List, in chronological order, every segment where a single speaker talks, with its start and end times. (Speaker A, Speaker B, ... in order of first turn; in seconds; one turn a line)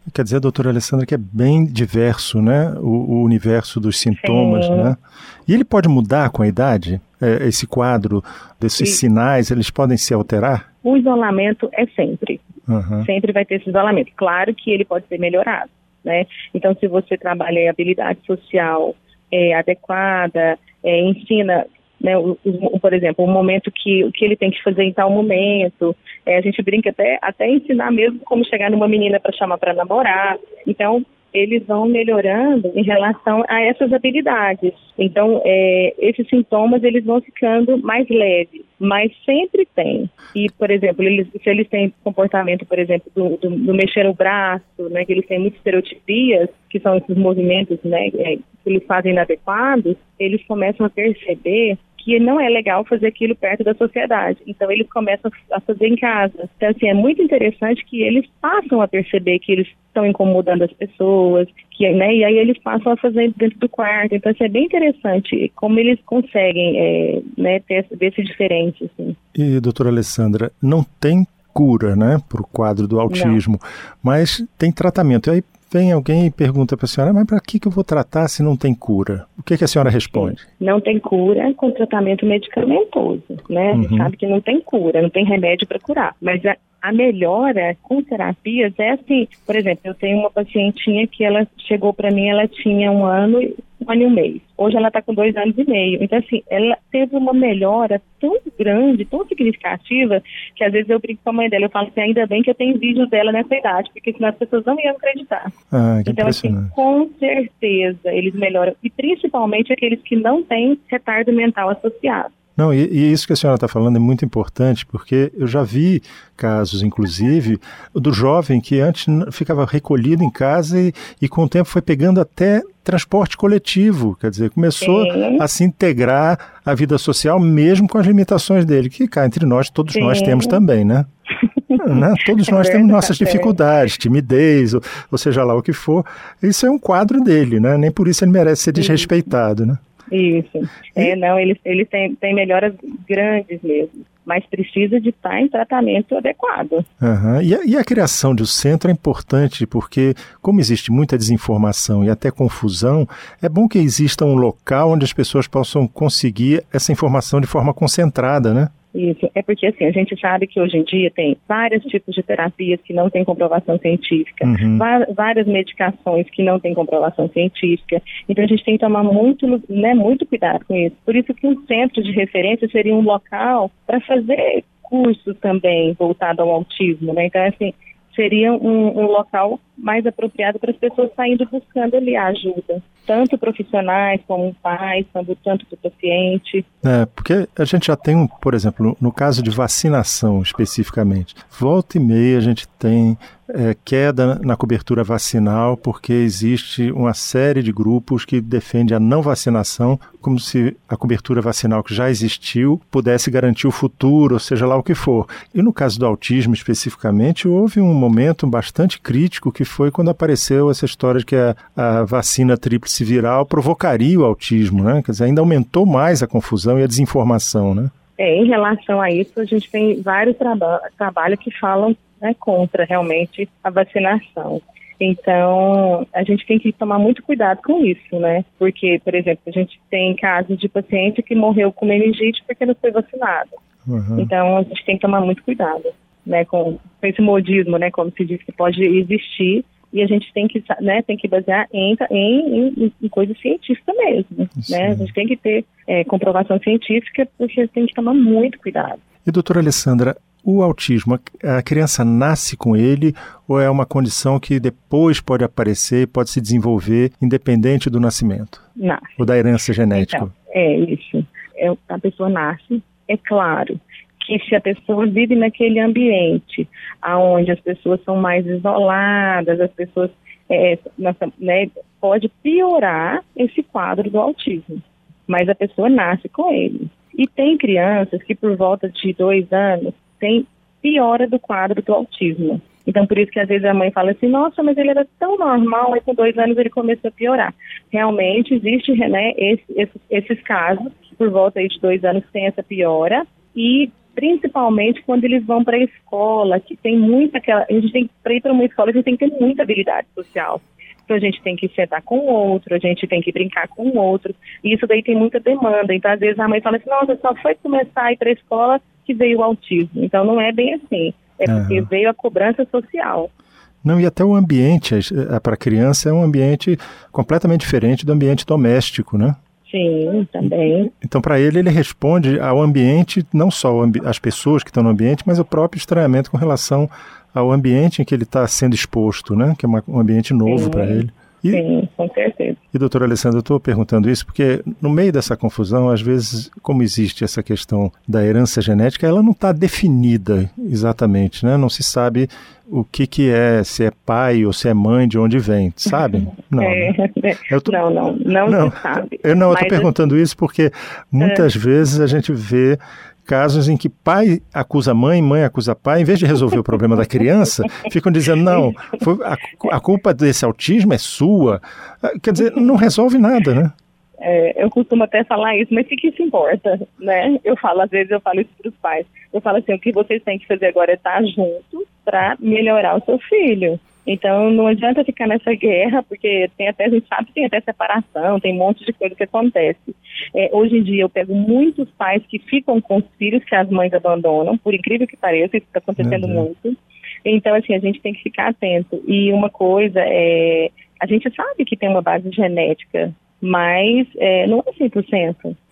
Speaker A: 0.1-10.6
Speaker B: 4.2-4.9
Speaker B: 10.8-12.4
Speaker A: 12.7-13.1
Speaker B: 13.0-69.2
Speaker A: 69.3-80.4
Speaker B: 73.1-73.4
Speaker B: 80.1-105.5
Speaker A: 83.7-84.1
Speaker A: 105.7-106.7
Speaker B: 106.0-112.3
Speaker A: 112.6-131.1
Speaker B: 124.8-125.4
Speaker B: 129.9-130.6
Speaker B: 131.5-133.5
Speaker A: 131.8-139.8
Speaker B: 138.8-139.1
Speaker B: 140.1-146.8
Speaker A: 147.0-158.7
Speaker B: 158.9-186.6
Speaker A: 164.4-164.8
Speaker A: 186.8-217.9
Speaker B: 218.2-233.6
Speaker A: 233.8-234.3
Speaker B: 234.2-249.0
Speaker A: 244.7-245.1
Speaker A: 249.2-258.6
Speaker B: 258.8-259.2
Speaker A: 259.2-260.3
Speaker B: 259.9-313.3
Speaker A: 311.4-311.9
Speaker A: 313.8-319.4
Speaker B: 319.7-320.9
Speaker A: 320.9-331.6
Speaker B: 330.4-332.6
Speaker A: 332.7-346.9
Speaker B: 346.2-349.9
Speaker A: 347.5-347.8
Speaker A: 348.4-363.7
Speaker B: 351.2-351.5
Speaker B: 364.2-395.6
Speaker A: 386.0-386.4